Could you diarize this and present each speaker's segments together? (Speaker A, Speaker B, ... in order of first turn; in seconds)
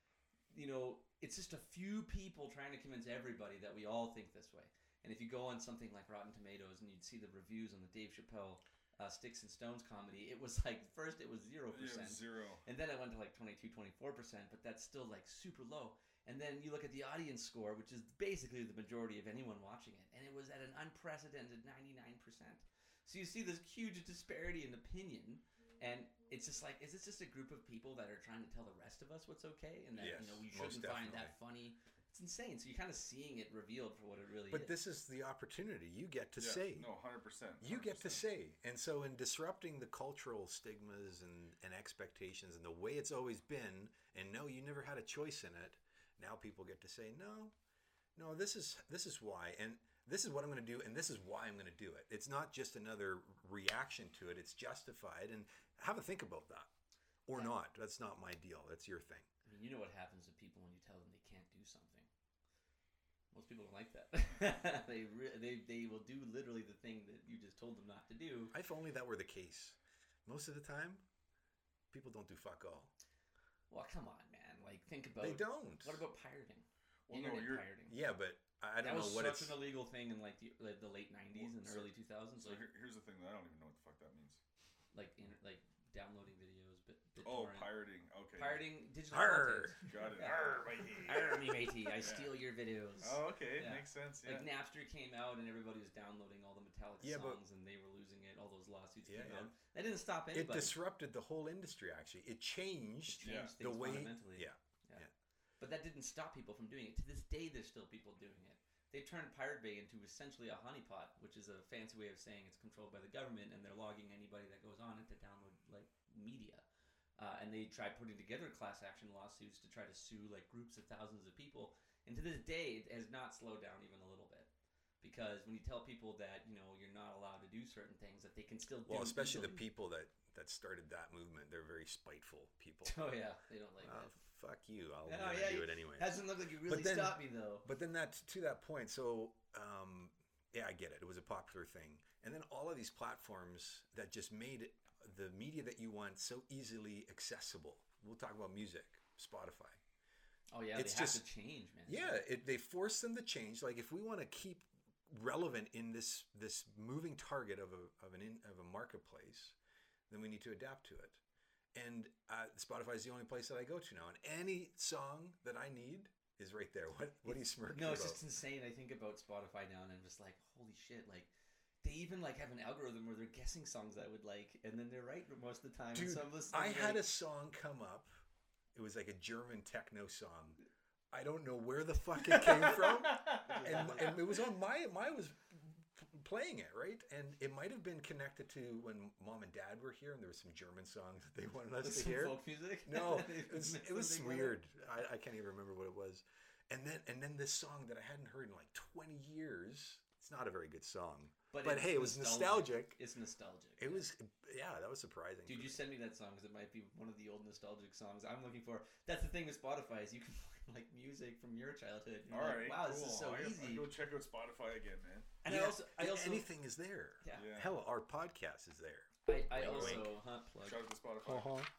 Speaker A: 0.5-34.8, 59.4-62.1, 63.3-68.5, 73.7-78.0, 78.8-82.6, 84.9-87.7, 88.4-100.8, 103.1-105.1, 105.6-116.7, 117.2-124.5, 125.0-129.7, 132.8-134.2, 135.1-137.6, 150.5-152.2, 167.3-171.3, 171.8-177.1, 183.3-184.2, 191.8-194.6, 201.5-204.0, 205.4-213.9, 215.4-216.5, 217.2-217.5, 219.2-220.8
Speaker B: 11.7-12.6, 36.4-38.2, 77.1-77.7, 81.4-84.4, 87.2-88.6, 89.9-91.4, 92.0-92.3, 93.0-94.5, 103.2-103.5, 212.3-215.3, 217.3-217.8, 219.6-221.5
Speaker C: 29.9-31.3, 34.5-36.9, 37.6-47.5, 48.1-56.7, 57.2-59.3, 68.5-71.0, 71.9-72.9, 75.2-76.0, 77.9-79.6, 89.1-89.8, 97.0-97.4, 99.0-99.5, 100.3-105.1, 128.8-133.1, 133.8-136.1, 136.6-149.8, 150.7-151.2, 151.8-159.6, 160.1-161.2, 161.7-168.2, 175.9-178.1, 178.7-180.6, 181.1-203.0, 203.8-205.8, 215.4-220.1, 221.2-221.7